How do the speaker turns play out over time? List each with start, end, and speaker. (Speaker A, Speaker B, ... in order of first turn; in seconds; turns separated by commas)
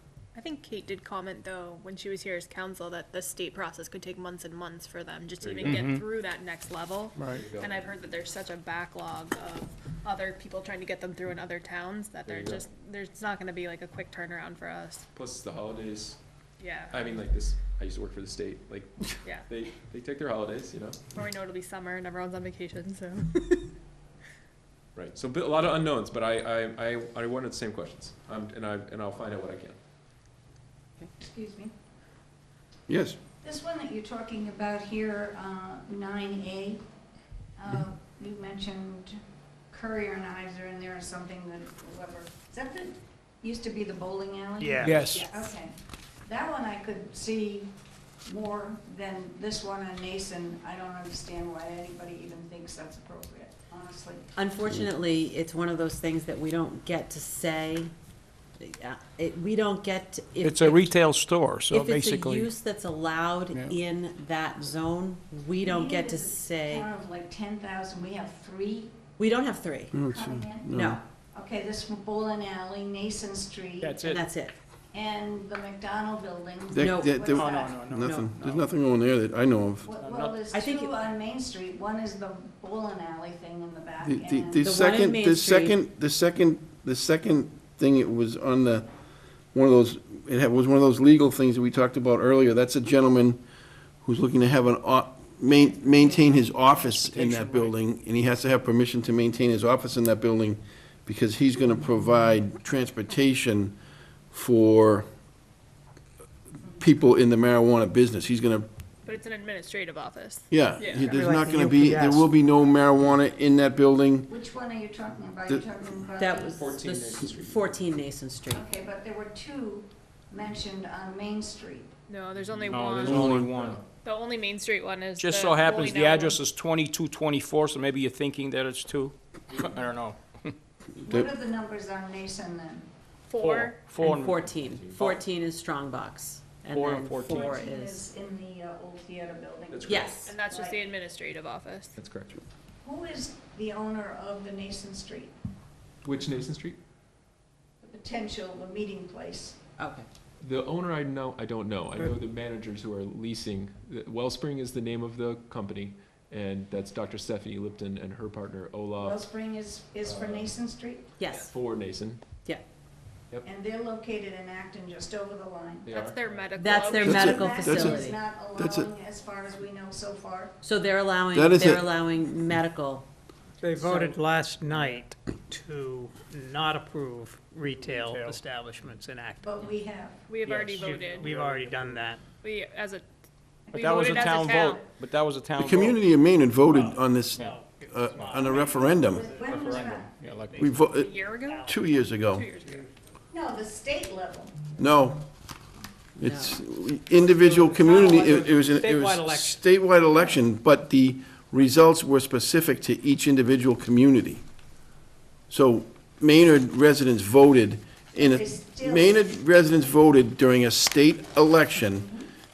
Speaker A: 0.3-15.1, Speaker B: 5.4-5.9, Speaker C: 5.7-6.0, Speaker B: 7.2-8.0, Speaker B: 12.3-12.7, Speaker B: 15.1-16.2, Speaker A: 16.6-17.0, Speaker B: 16.9-21.1, Speaker A: 21.1-23.7, Speaker B: 24.9-29.8, Speaker D: 31.2-31.7, Speaker E: 32.9-33.2, Speaker D: 33.4-36.8, Speaker D: 37.6-39.2, Speaker D: 39.7-45.8, Speaker F: 44.6-45.2, Speaker C: 44.9-45.1, Speaker D: 46.3-47.7, Speaker D: 48.3-54.3, Speaker G: 54.4-57.9, Speaker G: 58.6-61.0, Speaker C: 60.5-62.5, Speaker A: 61.2-61.8, Speaker G: 61.7-66.9, Speaker D: 65.6-69.0, Speaker G: 69.2-70.0, Speaker E: 69.9-71.0, Speaker D: 70.0-70.8, Speaker G: 70.7-71.0, Speaker D: 71.3-74.0, Speaker C: 73.8-74.2, Speaker G: 74.0-74.6, Speaker D: 74.9-78.0, Speaker E: 76.7-79.9, Speaker G: 76.8-77.3, Speaker C: 77.4-78.0, Speaker G: 78.0-78.6, Speaker D: 79.8-84.7, Speaker C: 80.0-80.4, Speaker G: 80.5-81.0, Speaker E: 84.0-88.9, Speaker G: 84.6-85.8, Speaker E: 89.5-93.4, Speaker E: 94.0-103.8, Speaker A: 97.0-97.6, Speaker E: 104.3-105.1, Speaker E: 106.8-108.7, Speaker A: 109.1-112.2, Speaker E: 110.5-114.3, Speaker D: 114.3-116.7, Speaker G: 116.2-118.7, Speaker B: 116.5-117.9, Speaker D: 118.5-121.9, Speaker A: 122.1-123.5, Speaker B: 122.4-123.9, Speaker C: 122.7-123.8, Speaker A: 124.0-127.0, Speaker C: 125.2-130.2, Speaker D: 131.1-132.9, Speaker A: 133.3-134.0, Speaker C: 133.4-134.4, Speaker G: 134.0-138.1, Speaker B: 134.6-135.2, Speaker C: 136.7-137.4, Speaker D: 137.2-140.8, Speaker B: 139.7-140.2, Speaker G: 139.9-140.3, Speaker A: 140.3-142.0, Speaker B: 142.0-142.4, Speaker D: 142.8-145.3, Speaker B: 146.0-146.8, Speaker D: 147.8-149.6, Speaker G: 149.8-150.1, Speaker B: 150.4-159.3, Speaker D: 159.0-161.1, Speaker B: 160.0-160.5, Speaker G: 161.2-161.5, Speaker B: 161.3-162.2, Speaker D: 163.4-166.0, Speaker B: 165.8-166.5, Speaker A: 166.0-167.2, Speaker G: 166.6-168.2, Speaker D: 166.7-170.6, Speaker E: 167.0-168.0, Speaker E: 168.6-168.9, Speaker G: 170.6-173.1, Speaker E: 171.3-171.9, Speaker F: 173.6-179.5, Speaker G: 173.8-174.2, Speaker C: 177.8-178.4, Speaker D: 179.4-180.3, Speaker A: 180.3-181.3, Speaker C: 180.5-180.8, Speaker F: 180.8-182.2, Speaker C: 181.4-181.9, Speaker A: 182.4-183.1, Speaker D: 183.7-184.5, Speaker A: 183.7-184.9, Speaker C: 183.8-186.0, Speaker E: 185.6-189.3, Speaker F: 186.7-191.8, Speaker D: 189.1-190.2, Speaker C: 189.4-190.6, Speaker E: 190.6-192.5, Speaker A: 190.9-191.7, Speaker A: 192.3-192.8, Speaker F: 192.6-192.9, Speaker D: 193.3-194.6, Speaker E: 194.8-195.2, Speaker E: 196.2-204.4, Speaker G: 196.2-196.6, Speaker F: 197.6-199.6, Speaker E: 205.5-212.1, Speaker D: 208.2-209.2